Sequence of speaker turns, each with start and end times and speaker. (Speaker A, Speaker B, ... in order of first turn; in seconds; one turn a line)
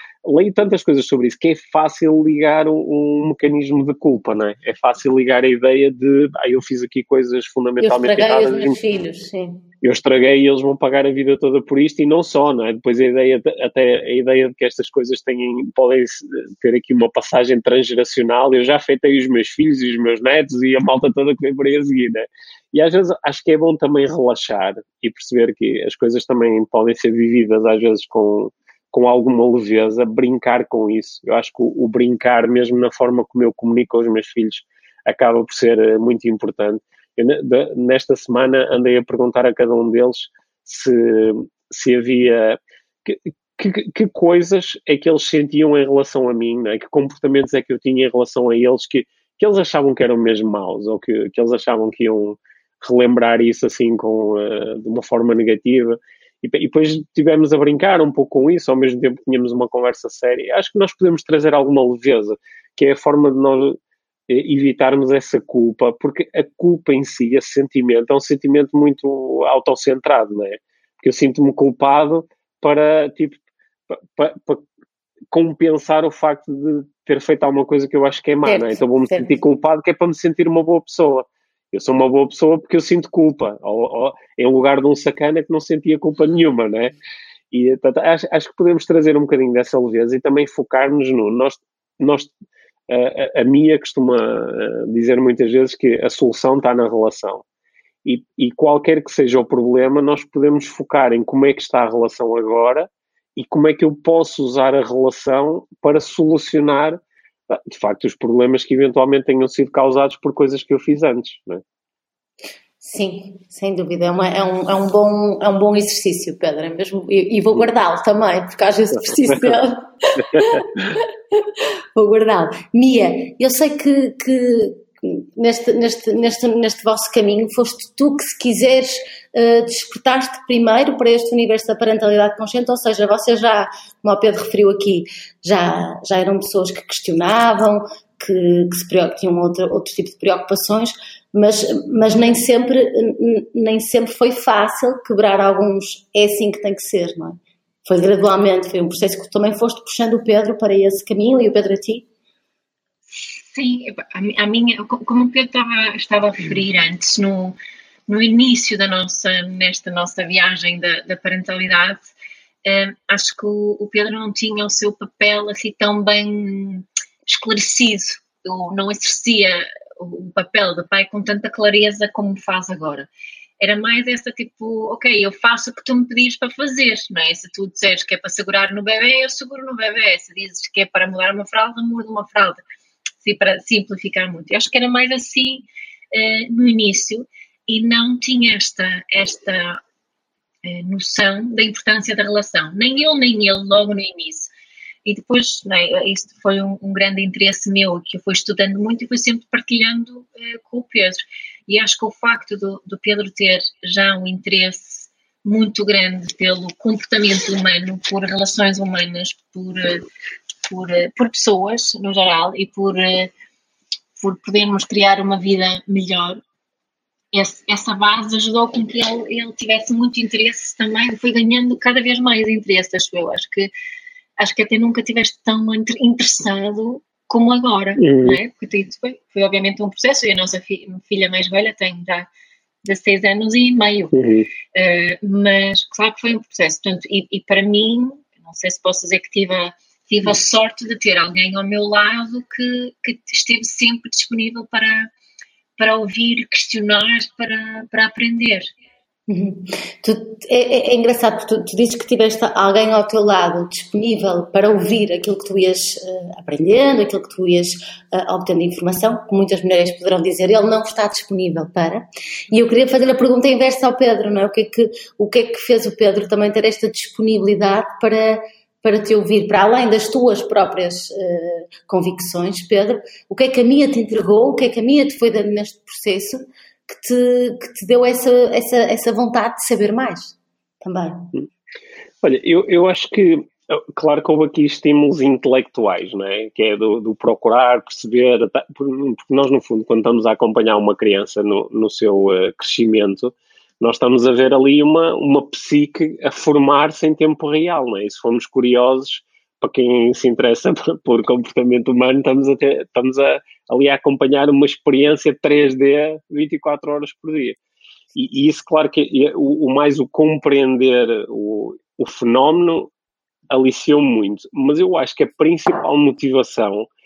Speaker A: 0.2-8.8
Speaker B: 7.8-9.6
Speaker A: 9.8-74.6
Speaker A: 75.3-86.9
Speaker B: 78.5-79.4
Speaker A: 87.5-92.3
Speaker A: 92.9-97.4
Speaker A: 98.0-111.6
Speaker B: 112.8-152.1
Speaker A: 119.2-119.6
Speaker C: 153.1-157.6
Speaker C: 158.1-162.1
Speaker C: 162.7-173.1
Speaker C: 173.6-182.6
Speaker C: 183.2-189.8
Speaker C: 190.6-194.5
Speaker C: 195.1-210.1
Speaker C: 210.7-213.3
Speaker C: 214.2-216.4
Speaker C: 217.3-223.7
Speaker C: 224.4-232.3
Speaker A: 228.0-228.4
Speaker C: 232.8-234.2
Speaker A: 234.1-234.5
Speaker C: 234.7-245.1
Speaker C: 245.8-248.7
Speaker B: 249.3-281.3
Speaker A: 282.2-307.6
Speaker A: 308.1-312.9
Speaker A: 313.5-316.9